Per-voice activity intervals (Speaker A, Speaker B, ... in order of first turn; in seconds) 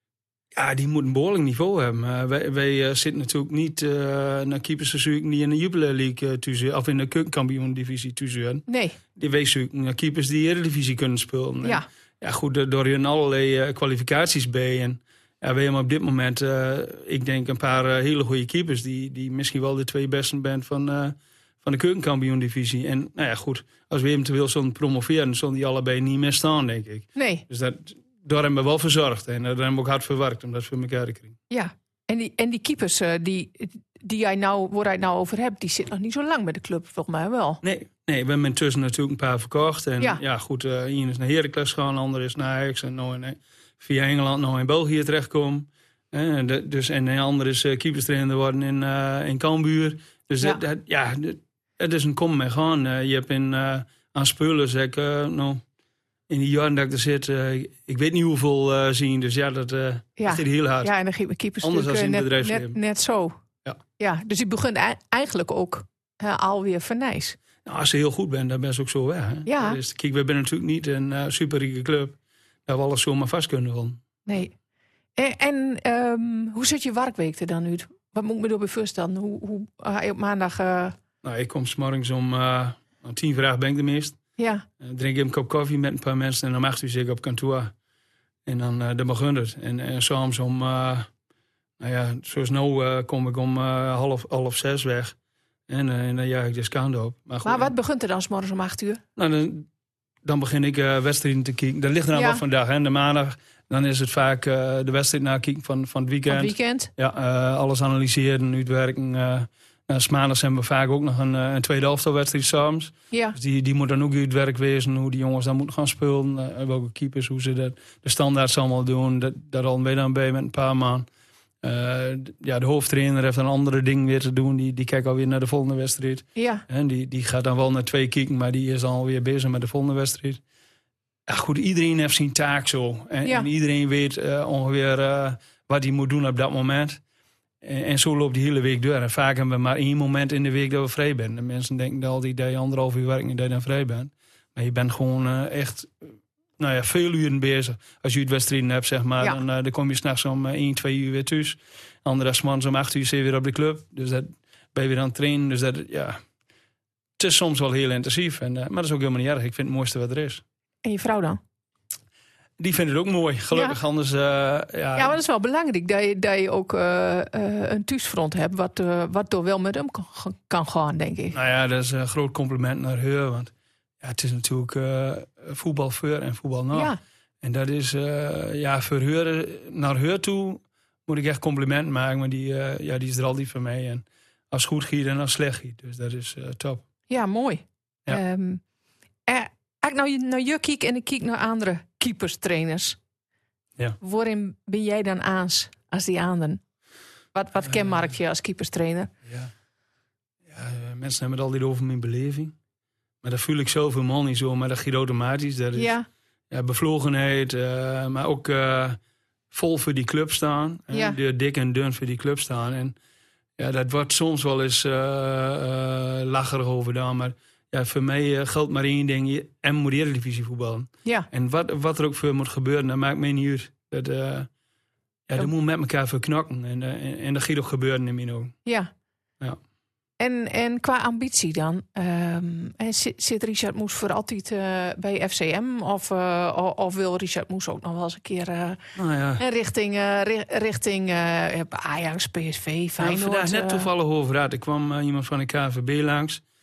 Speaker A: 0.5-31.4, 37.6-55.6, 56.3-60.9, 61.6-62.8, 67.6-74.0, 81.2-84.2, 84.8-87.7, 88.5-91.1, 91.8-95.1, 95.7-97.7, 99.2-99.7, 100.2-121.1, 121.6-130.4, 131.3-137.0, 137.6-156.2, 157.2-160.4, 162.6-165.2, 171.3-186.8, 197.6-198.1, 199.2-199.5, 200.4-202.5, 203.2-205.9, 206.5-209.0, 209.5-212.9, 213.6-224.5, 225.3-228.5, 238.9-239.4, 243.0-246.4
Speaker B: 8.7-9.0, 27.1-27.4, 31.5-37.6, 60.2-63.4, 64.0-67.4, 69.5-69.8, 74.2-74.5, 75.2-81.0, 84.4-84.7, 97.4-99.0, 102.1-102.4, 106.3-106.9, 113.1-113.4, 126.3-126.6, 160.8-161.4, 163.5-163.8, 164.9-171.3, 187.1-188.6, 189.3-193.0, 194.0-196.6, 197.3-199.1, 205.7-206.0, 210.9-211.2, 228.7-228.9, 230.2-243.9